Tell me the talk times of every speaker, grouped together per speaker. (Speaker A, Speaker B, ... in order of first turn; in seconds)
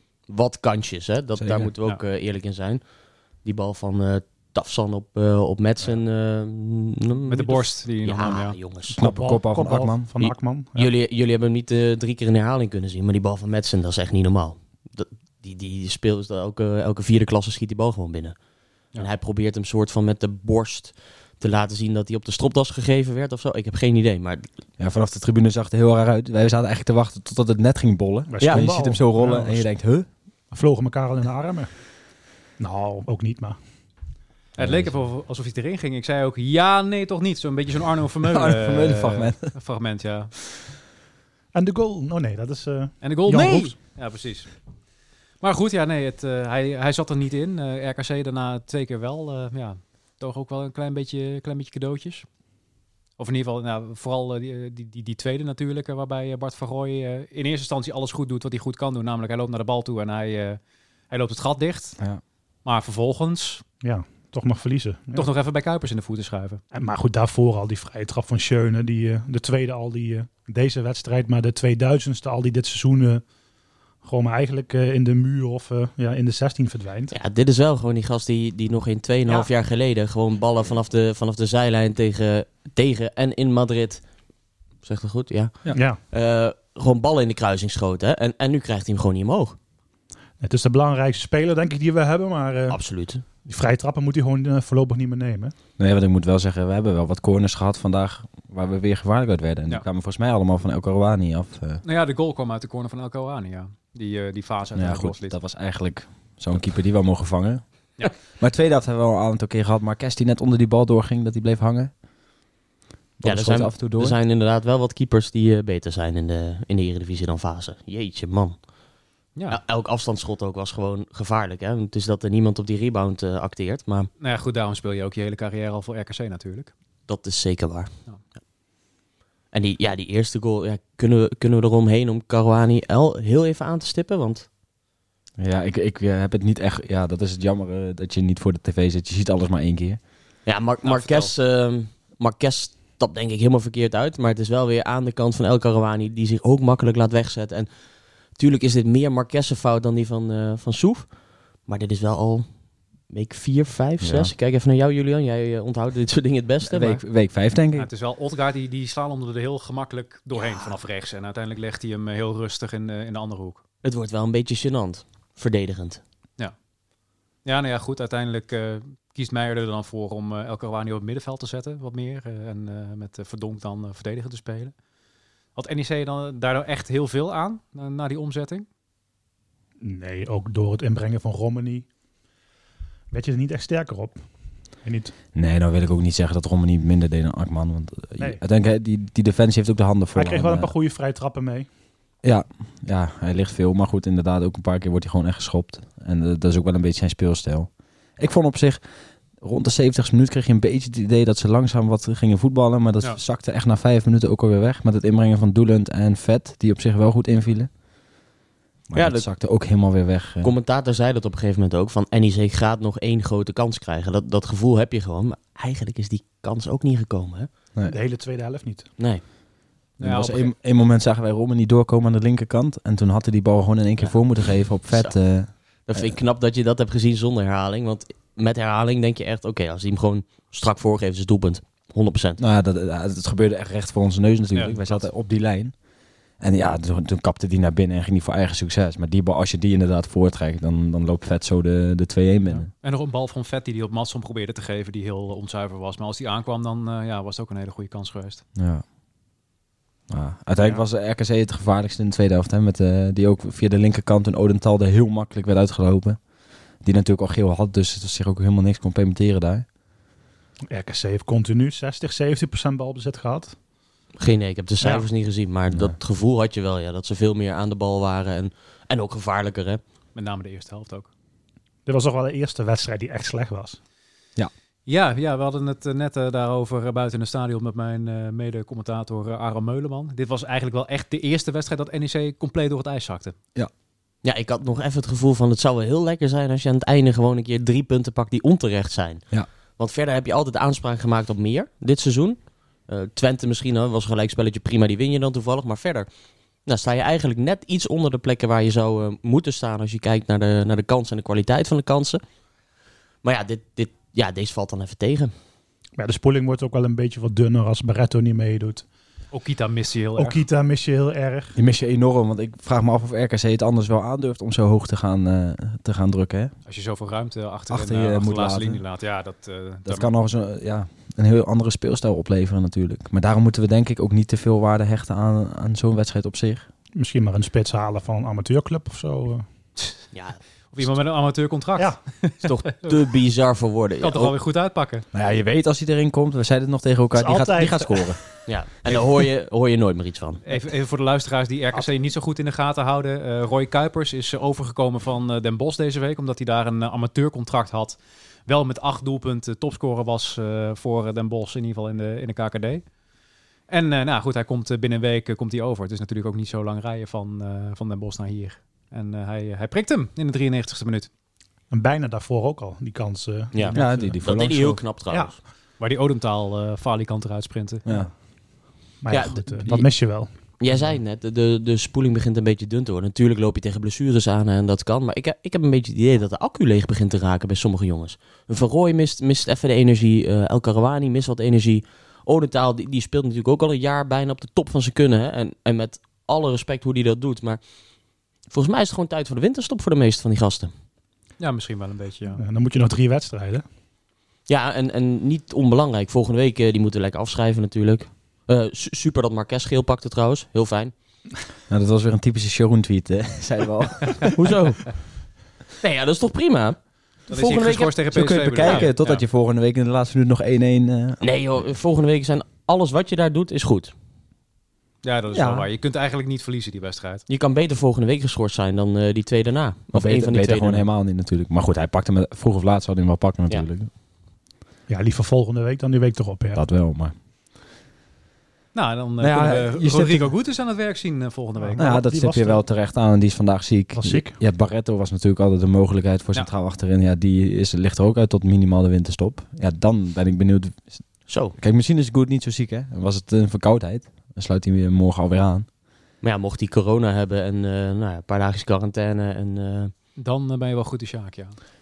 Speaker A: 0.3-2.8, 3.4-9.0, 10.2-18.4, 18.9-24.5, 77.1-84.0, 84.8-89.6, 92.7-93.2, 113.2-118.6, 119.5-124.1, 127.1-127.9, 129.5-134.5, 140.5-147.7, 148.4-151.1, 151.7-152.5, 153.1-157.0, 160.4-160.7, 163.8-166.0, 208.9-209.3, 210.4-217.5, 225.9-232.4, 264.2-269.8, 284.2-289.2, 289.8-296.1, 296.7-302.2, 303.2-305.3, 330.1-331.0, 332.4-334.3, 338.5-340.4, 363.5-365.4, 369.1-369.9, 370.6-387.6, 388.5-390.7, 394.5-400.9, 404.3-405.0, 405.8-406.8, 407.3-408.0, 408.6-408.9, 411.2-413.9, 417.3-420.8, 441.3-441.6, 446.2-449.9
Speaker B: 1.4-1.7, 9.0-10.1, 24.8-30.1, 34.6-34.9, 38.2-39.5, 95.8-101.8, 104.8-107.6, 108.2-111.9, 113.2-114.2, 135.4-140.0, 154.0-154.3, 156.7-157.9, 185.3-190.7, 192.2-198.8, 199.4-207.7, 208.9-210.5, 220.0-226.2, 232.4-235.7, 236.4-242.7, 248.6-248.8, 250.1-256.2, 256.8-259.6, 311.6-316.5, 317.7-318.8, 319.9-326.7, 335.1-338.2, 363.7-364.8, 367.9-368.1, 401.7-404.4, 408.1-411.2, 415.3-415.7, 419.9-423.9, 426.6-427.1, 429.2-430.3, 431.8-441.0, 441.6-445.7
Speaker C: 7.2-8.6, 34.6-40.3, 43.0-44.5, 45.4-52.3, 53.2-62.0, 62.6-63.6, 65.2-66.6, 101.8-105.4, 124.2-126.7, 140.8-141.3, 157.8-163.6, 167.4-174.7, 175.6-178.7, 220.0-220.5, 234.5-235.0, 242.5-248.4, 270.1-271.1, 274.9-283.4, 309.3-310.4, 316.7-320.1, 330.7-332.5, 334.0-335.1, 340.5-352.9, 353.7-361.1, 365.8-367.9, 391.4-392.4, 407.3-409.2, 415.0-417.2, 428.7-432.0, 450.2-451.6
Speaker D: 8.9-10.9, 28.3-29.7, 30.5-31.7, 32.6-33.6, 41.5-43.8, 63.8-65.3, 66.7-73.2, 74.0-77.2, 85.7-86.0, 90.4-92.8, 93.5-95.5, 179.8-181.9, 183.1-184.2, 184.8-185.1, 190.1-191.7, 217.8-218.9, 260.7-263.6, 264.8-265.1, 271.9-273.8, 306.0-308.9, 310.2-311.6, 326.9-329.4, 337.1-338.2, 361.7-364.2, 369.0-370.3, 392.4-393.6, 424.9-426.6, 431.6-432.6, 434.0-434.4